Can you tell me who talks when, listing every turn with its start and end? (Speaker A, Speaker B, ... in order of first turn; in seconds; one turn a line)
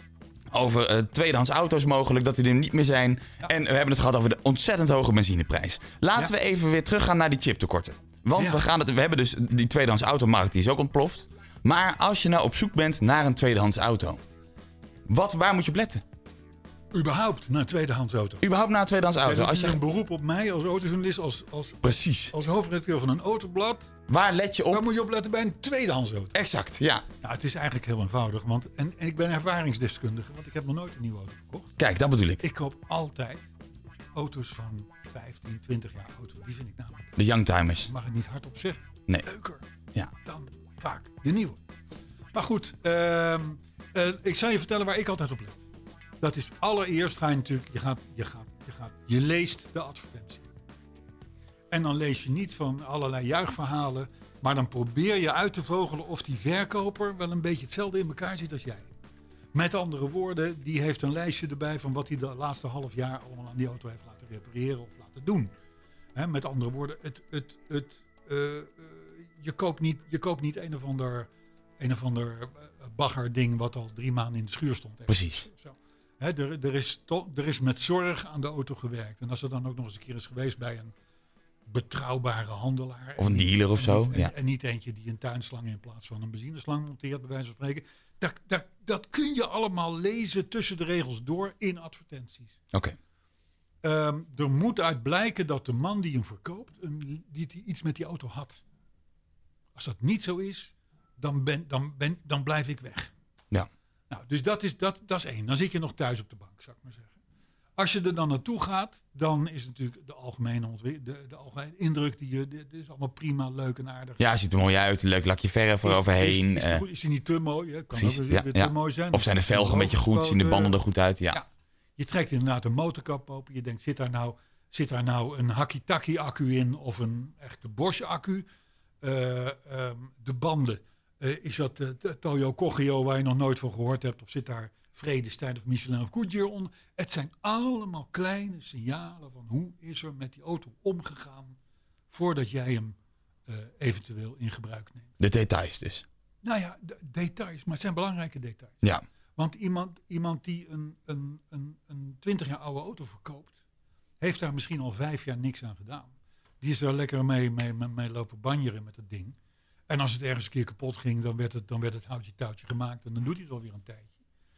Speaker A: 0.5-14.2
Speaker B: 8.4-8.7
Speaker A: 15.1-16.0
Speaker B: 16.9-18.4
Speaker A: 18.4-19.8
Speaker B: 19.2-23.9
Speaker A: 21.8-22.3
Speaker A: 24.1-24.8
Speaker B: 24.7-26.4
Speaker A: 26.3-27.1
Speaker B: 27.2-31.8
Speaker A: 31.8-32.4
Speaker B: 32.4-33.5
Speaker B: 34.1-37.2
Speaker A: 37.2-37.9
Speaker B: 37.8-39.7
Speaker B: 40.2-41.6
Speaker B: 42.3-45.6
Speaker B: 46.2-50.5
Speaker B: 51.7-58.9
Speaker B: 59.5-65.5
Speaker B: 66.2-80.9
Speaker A: 75.1-75.5
Speaker B: 81.7-92.6
Speaker A: 83.2-84.3
Speaker B: 93.8-98.6
Speaker B: 99.8-103.1
Speaker B: 104.1-107.2
Speaker B: 107.8-114.2
Speaker A: 114.2-116.8
Speaker B: 115.8-120.8
Speaker A: 117.9-121.4
Speaker B: 121.3-128.5
Speaker B: 129.0-141.6
Speaker B: 142.1-145.1
Speaker A: 145.2-146.1
Speaker B: 146.4-148.8
Speaker B: 149.4-153.6
Speaker B: 154.2-159.4
Speaker B: 159.9-164.1